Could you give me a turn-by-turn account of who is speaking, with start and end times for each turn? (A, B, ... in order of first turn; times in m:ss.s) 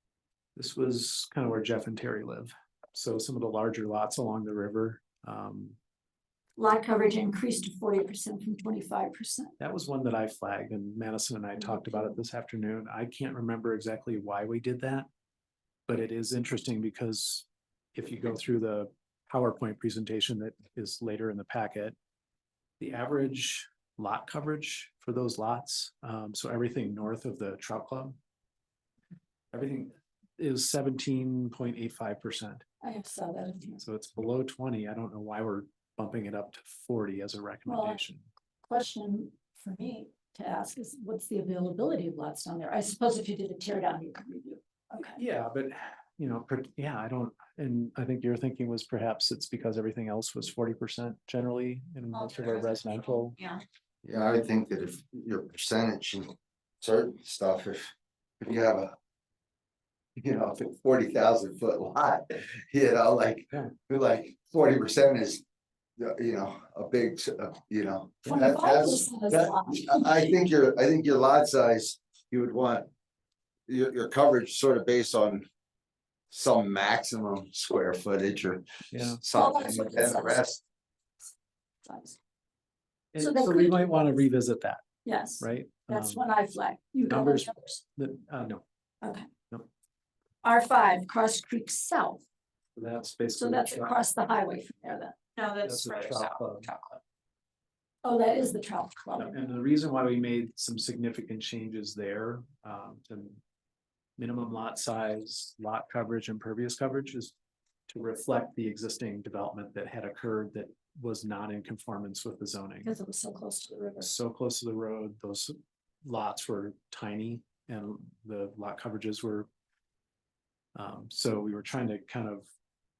0:00.6-0:05.8 A
0:06.6-0:09.5 B
0:09.6-0:15.1 A
0:11.6-0:12.2 B
0:15.9-0:22.0 A
0:22.8-0:28.2 A
0:29.5-0:32.6 A
0:32.8-0:33.8 B
0:33.8-0:38.3 A
0:37.7-0:38.0 B
0:38.6-0:45.2 B
0:45.0-0:53.4 A
0:52.1-0:53.6 C
0:54.0-0:58.9 D
1:00.2-1:05.4 D
1:06.0-1:12.9 D
1:08.3-1:10.3 B
1:13.7-1:15.5 D
1:16.3-1:20.6 D
1:18.9-1:19.2 A
1:19.3-1:20.5 B
1:21.8-1:22.2 B
1:23.1-1:24.8 A
1:23.2-1:24.2 B
1:25.0-1:27.8 B
1:25.4-1:26.2 A
1:27.1-1:28.6 A
1:29.0-1:29.3 B
1:30.4-1:32.2 B
1:32.8-1:34.0 A
1:33.3-1:35.2 B
1:35.4-1:37.0 C
1:35.6-1:36.7 A
1:38.0-1:39.4 B
1:39.2-1:43.4 A
1:44.2-1:47.3 A
1:47.9-1:52.9 A
1:52.8-1:54.1 B
1:54.0-1:59.5 A
2:00.8-2:02.5 A